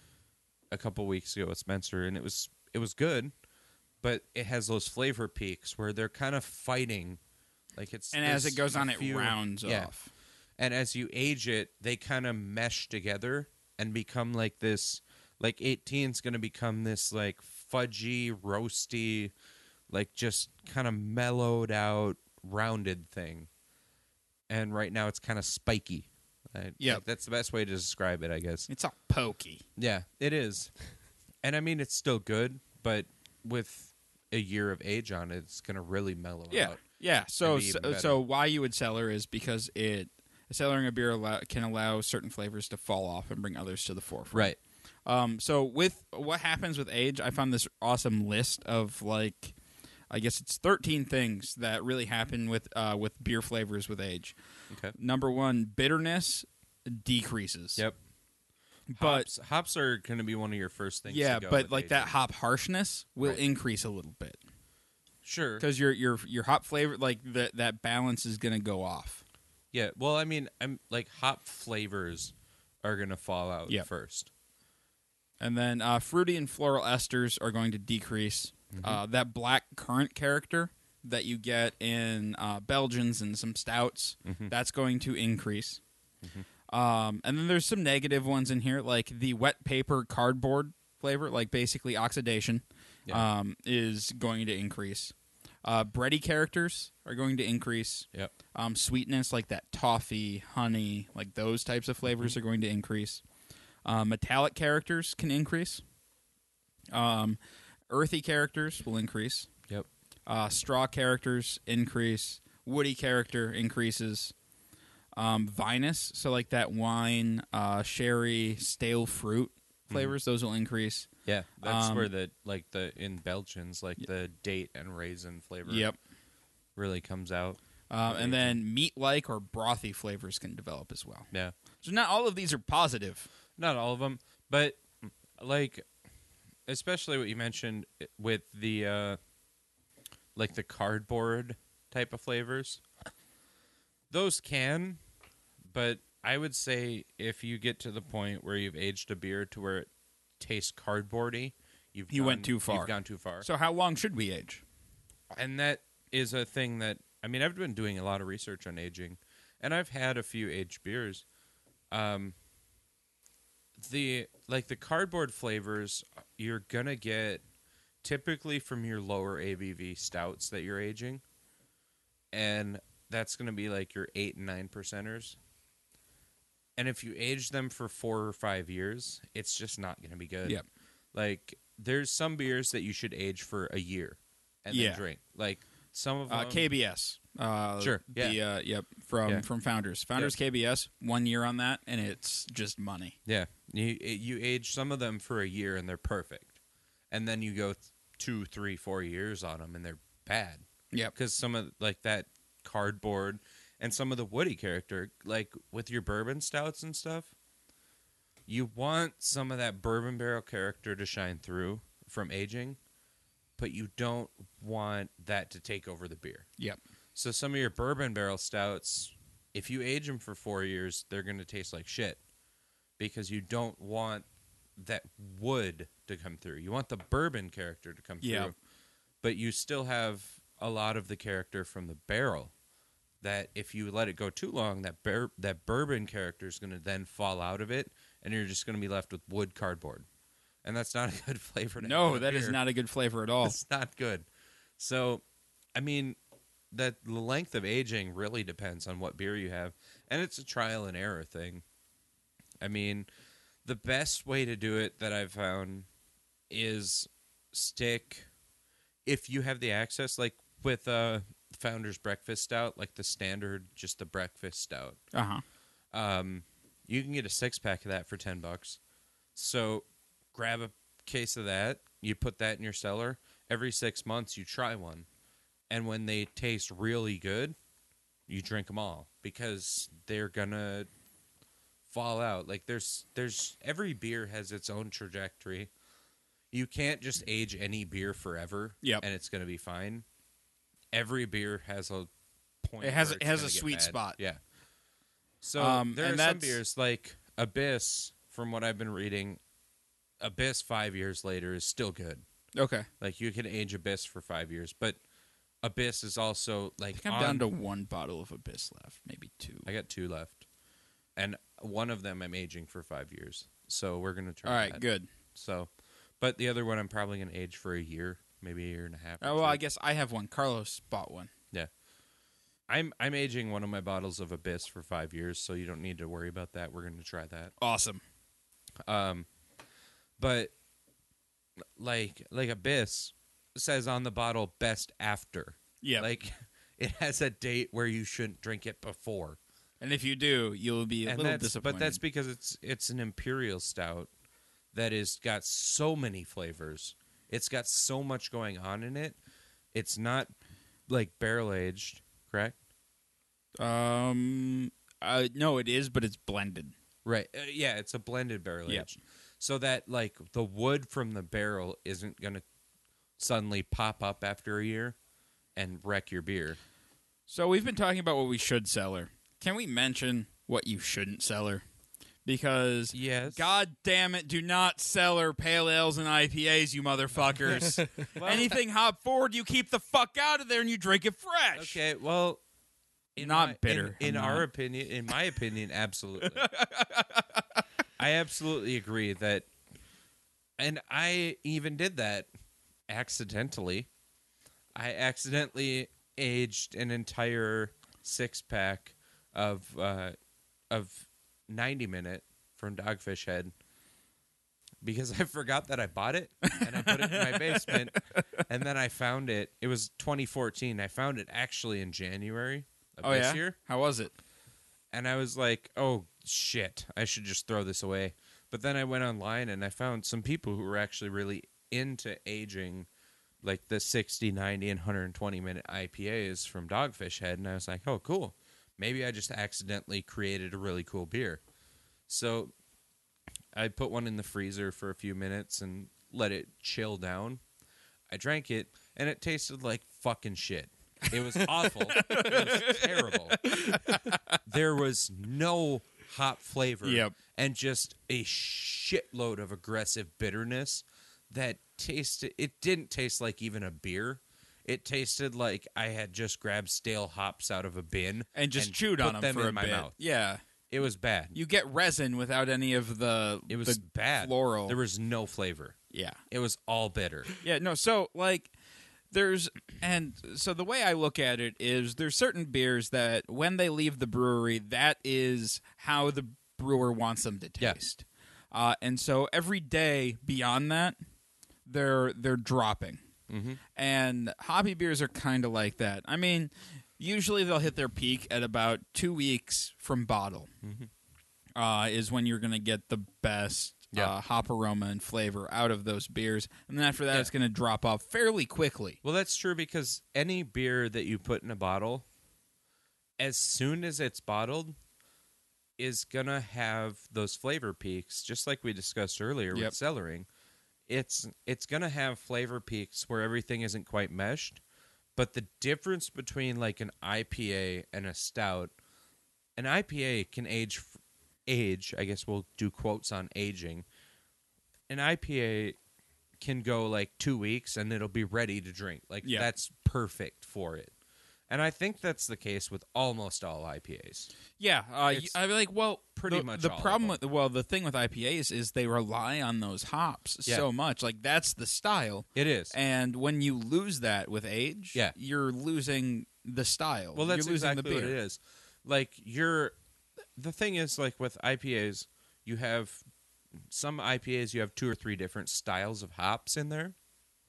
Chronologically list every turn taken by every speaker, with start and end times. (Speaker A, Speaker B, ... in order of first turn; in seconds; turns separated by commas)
Speaker A: 0.7-3.3, Speaker A: 4.0-7.2, Speaker A: 7.8-9.9, Speaker B: 8.1-10.1, Speaker A: 10.6-19.3, Speaker A: 19.9-23.5, Speaker A: 24.5-28.7, Speaker B: 28.7-29.6, Speaker A: 29.8-30.7, Speaker A: 31.4-36.8, Speaker B: 36.5-44.5, Speaker A: 37.4-38.2, Speaker A: 44.3-44.6, Speaker B: 45.0-49.5, Speaker B: 50.1-54.3, Speaker A: 54.7-54.9, Speaker B: 54.9-57.8, Speaker B: 58.9-59.3, Speaker A: 59.0-62.1, Speaker B: 61.1-64.4, Speaker A: 65.2-65.7, Speaker B: 65.6-69.2, Speaker A: 69.7-74.3, Speaker B: 75.4-85.8, Speaker A: 78.7-79.0, Speaker A: 84.2-84.5, Speaker B: 86.7-103.2, Speaker B: 103.8-105.8, Speaker B: 106.9-107.4, Speaker B: 107.9-109.5, Speaker B: 110.3-114.3, Speaker B: 115.2-121.1, Speaker A: 119.9-120.1, Speaker A: 121.2-125.9, Speaker B: 121.6-122.1, Speaker B: 125.7-126.0, Speaker A: 126.8-128.6, Speaker B: 127.9-131.3, Speaker B: 131.8-133.3, Speaker A: 133.6-135.8, Speaker A: 136.7-139.2, Speaker A: 140.3-142.8, Speaker A: 144.1-145.0, Speaker A: 145.7-149.9, Speaker A: 150.4-153.5, Speaker B: 152.1-154.6, Speaker A: 155.3-161.2, Speaker A: 161.9-162.3, Speaker A: 163.8-167.4, Speaker A: 168.0-171.2, Speaker A: 172.3-175.4, Speaker A: 176.8-180.6, Speaker A: 181.1-186.7, Speaker B: 184.7-185.0, Speaker B: 186.3-193.2, Speaker A: 187.8-188.4, Speaker A: 193.2-196.5, Speaker A: 197.1-200.6, Speaker A: 201.1-207.3, Speaker A: 208.5-212.8, Speaker A: 213.6-216.5, Speaker A: 217.2-222.2, Speaker A: 223.0-224.2, Speaker A: 224.8-228.5, Speaker B: 228.2-228.5, Speaker A: 229.2-232.5, Speaker A: 233.2-240.1, Speaker A: 240.6-242.6, Speaker B: 241.8-243.6, Speaker A: 243.4-244.2, Speaker A: 244.8-245.2, Speaker A: 245.7-246.2, Speaker A: 246.7-251.6, Speaker A: 252.6-253.1, Speaker A: 253.6-255.8, Speaker A: 256.5-258.3, Speaker A: 259.0-265.0, Speaker B: 265.1-265.4, Speaker A: 265.9-268.8, Speaker A: 269.4-275.1, Speaker A: 275.7-277.6, Speaker A: 278.3-280.9, Speaker A: 281.9-285.7, Speaker A: 286.5-290.0, Speaker A: 290.9-292.1, Speaker A: 292.6-294.4, Speaker B: 292.8-294.2, Speaker A: 295.4-299.4, Speaker B: 295.6-296.6, Speaker A: 300.2-302.2, Speaker B: 302.5-302.9, Speaker A: 303.0-305.0, Speaker A: 305.6-307.5, Speaker B: 306.9-309.7, Speaker A: 309.6-310.4, Speaker A: 311.1-314.8, Speaker B: 314.4-315.1, Speaker A: 315.3-319.6, Speaker B: 319.2-321.3, Speaker A: 322.7-327.5, Speaker B: 327.6-328.0, Speaker A: 328.9-329.3, Speaker A: 330.2-330.5, Speaker A: 331.8-339.4, Speaker B: 335.8-336.1, Speaker B: 339.8-342.0, Speaker A: 341.1-344.1, Speaker A: 344.7-349.2, Speaker A: 349.7-350.3, Speaker A: 350.9-352.5, Speaker B: 353.6-356.7, Speaker A: 357.0-362.4, Speaker A: 363.2-364.9, Speaker A: 365.6-366.6, Speaker B: 367.3-371.6, Speaker B: 372.2-381.8, Speaker A: 372.9-373.5, Speaker A: 378.1-378.6, Speaker A: 381.5-382.4, Speaker A: 383.1-386.5, Speaker B: 383.2-384.4, Speaker B: 386.2-387.4, Speaker A: 388.0-389.4, Speaker A: 390.6-392.3, Speaker A: 392.9-393.9, Speaker A: 394.7-400.1, Speaker A: 400.7-403.5, Speaker A: 404.8-413.5, Speaker B: 406.5-408.4, Speaker B: 413.0-414.1, Speaker A: 414.9-422.9, Speaker A: 423.4-431.4, Speaker A: 432.1-432.5, Speaker A: 433.5-437.4, Speaker A: 438.1-459.9, Speaker B: 441.4-444.4, Speaker B: 446.8-447.1, Speaker B: 458.3-460.4, Speaker A: 460.7-461.4, Speaker B: 461.3-464.8, Speaker A: 463.5-465.8, Speaker B: 465.9-466.2, Speaker A: 466.3-467.3, Speaker B: 467.4-468.5, Speaker B: 469.1-481.0, Speaker B: 481.6-483.0, Speaker A: 483.3-483.6, Speaker B: 483.7-490.5, Speaker A: 490.6-490.9, Speaker B: 491.6-499.0, Speaker A: 499.0-502.0, Speaker A: 503.2-504.8, Speaker A: 505.8-510.3, Speaker A: 510.9-514.6, Speaker A: 515.1-518.7, Speaker A: 519.6-523.8, Speaker A: 524.9-525.8, Speaker A: 526.4-530.9, Speaker B: 529.2-529.5, Speaker A: 531.5-534.3, Speaker B: 534.6-548.1, Speaker A: 535.1-535.4, Speaker A: 536.1-537.2, Speaker A: 542.3-542.7, Speaker A: 547.1-549.7, Speaker A: 550.4-553.0, Speaker A: 553.7-556.9